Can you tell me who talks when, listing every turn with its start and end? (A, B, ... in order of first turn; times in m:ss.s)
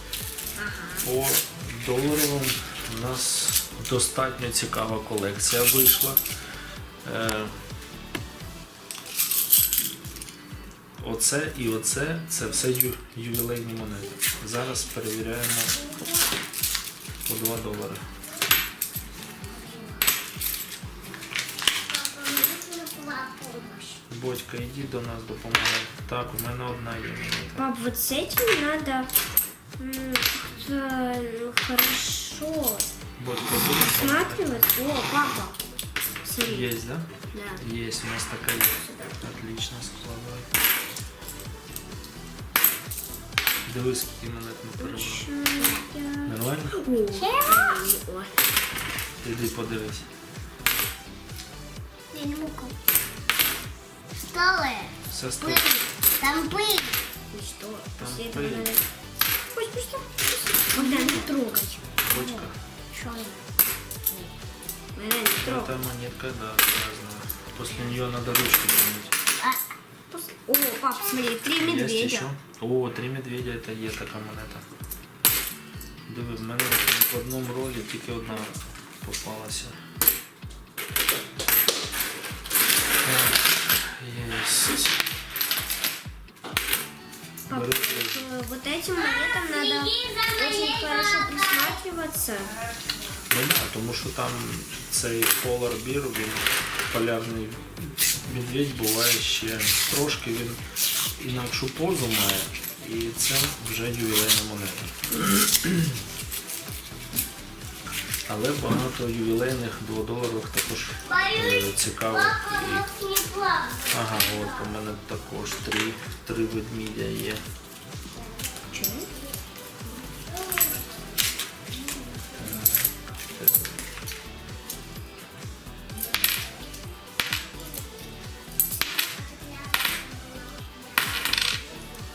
0:00.6-0:01.0 A
0:01.0-0:06.2 B
0:07.0-0:07.5 B
0:11.0-0:15.8 B
0:17.3-0:18.0 B
0:21.9-0:24.0 C
0:24.1-0:27.7 B
0:27.6-0:29.1 A
0:29.8-0:32.9 A
0:33.2-0:34.7 B
0:33.5-0:35.6 A
0:36.2-0:36.7 A
0:36.4-0:40.5 B
0:37.3-0:37.6 A
0:43.7-0:45.3 B
0:44.8-0:48.4 A
0:46.3-0:46.8 B
0:47.1-0:47.8 C
0:49.2-0:50.1 B
0:52.1-0:52.8 C
0:54.2-0:57.0 C
0:55.1-0:55.8 B
0:57.3-0:58.9 A
0:58.0-0:58.8 B
0:59.5-1:02.4 A
1:00.8-1:01.5 C
1:02.0-1:02.6 B
1:02.9-1:03.4 C
1:03.0-1:03.3 A
1:05.0-1:05.8 A
1:05.4-1:09.2 B
1:10.1-1:12.3 A
1:11.6-1:14.7 B
1:16.1-1:19.8 B
1:23.0-1:25.1 B
1:27.5-1:32.6 A
1:27.5-1:28.2 B
1:30.0-1:30.4 C
1:33.3-1:40.6 B
1:41.2-1:46.0 B
1:48.3-1:53.0 B
1:52.4-1:53.9 C
1:53.9-1:57.4 B
1:58.7-1:59.1 A
2:00.5-2:00.8 C
2:02.4-2:03.8 B
2:09.0-2:11.4 C